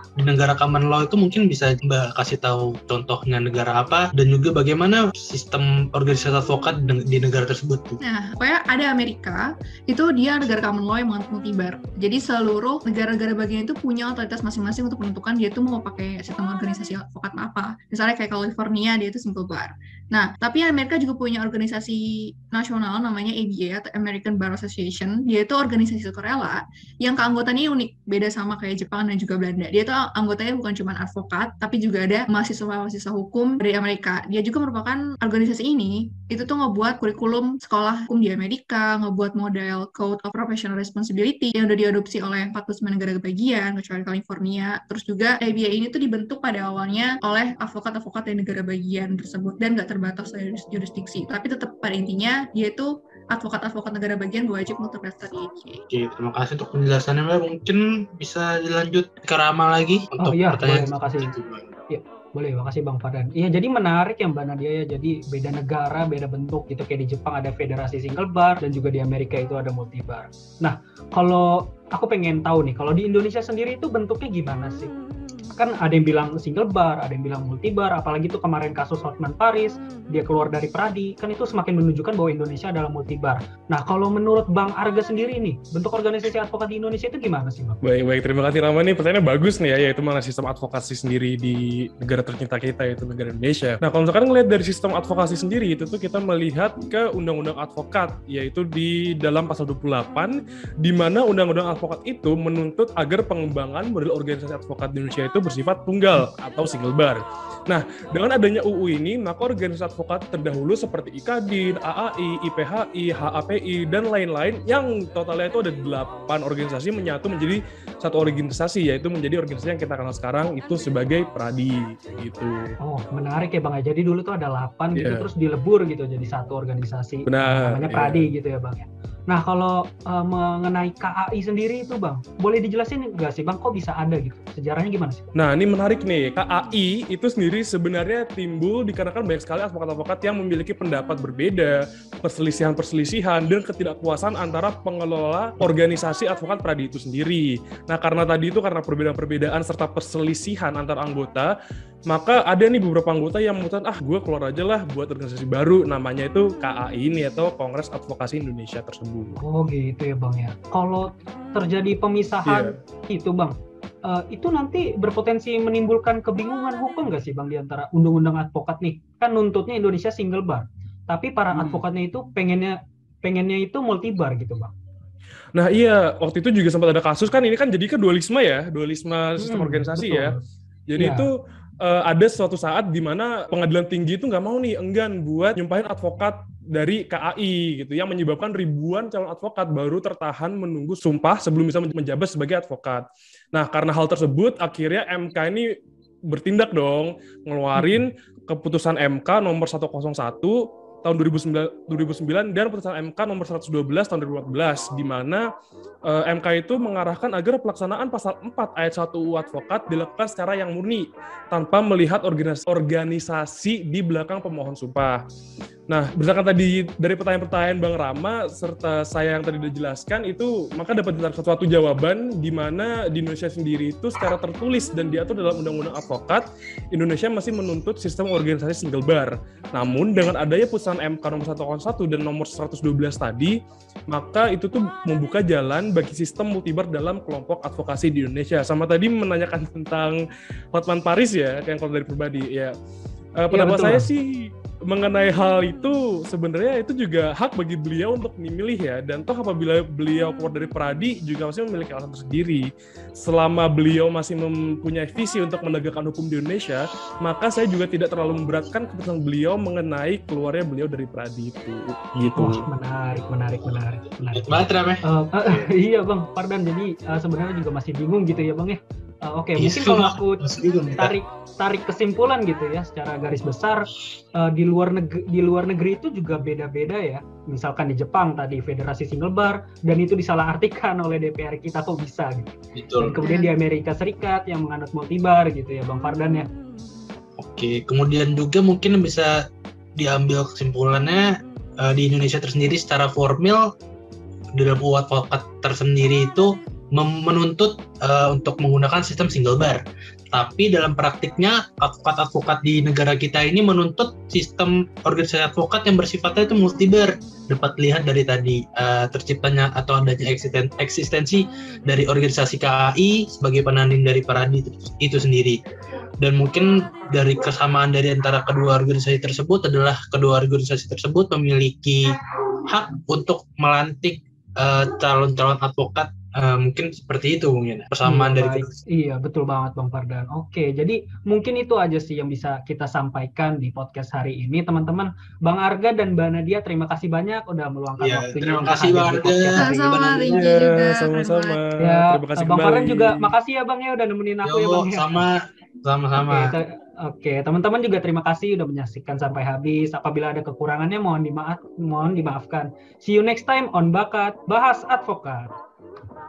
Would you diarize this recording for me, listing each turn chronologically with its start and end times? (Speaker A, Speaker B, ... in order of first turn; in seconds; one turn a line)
Speaker A: 0.2-8.0
Speaker B: 8.0-55.8
Speaker A: 55.9-61.7
Speaker C: 60.2-61.3
Speaker C: 61.9-74.9
Speaker C: 75.5-87.8
Speaker D: 87.8-122.7
Speaker C: 122.8-135.3
Speaker D: 124.9-125.3
Speaker D: 127.2-128.3
Speaker D: 135.3-151.5
Speaker D: 152.1-159.4
Speaker C: 159.4-174.7
Speaker D: 162.5-162.7
Speaker D: 171.5-171.8
Speaker D: 175.5-180.3
Speaker C: 179.4-180.4
Speaker D: 180.9-195.6
Speaker C: 180.9-181.3
Speaker D: 196.3-205.4
Speaker C: 197.7-198.0
Speaker D: 206.1-215.2
Speaker D: 215.9-233.5
Speaker D: 234.1-240.2
Speaker D: 240.7-242.7
Speaker D: 243.4-252.7
Speaker C: 243.5-244.1
Speaker D: 253.2-262.6
Speaker C: 262.4-270.4
Speaker A: 264.3-265.0
Speaker A: 269.6-271.1
Speaker C: 271.0-286.5
Speaker A: 282.7-283.2
Speaker B: 283.2-283.5
Speaker A: 287.4-289.3
Speaker A: 290.0-291.3
Speaker A: 291.8-293.6
Speaker A: 294.5-315.6
Speaker A: 316.2-322.1
Speaker A: 322.7-328.8
Speaker C: 328.0-339.9
Speaker A: 338.0-340.5
Speaker B: 339.5-341.6
Speaker D: 340.4-343.2
Speaker C: 341.8-345.3
Speaker A: 344.4-346.5
Speaker C: 346.2-355.5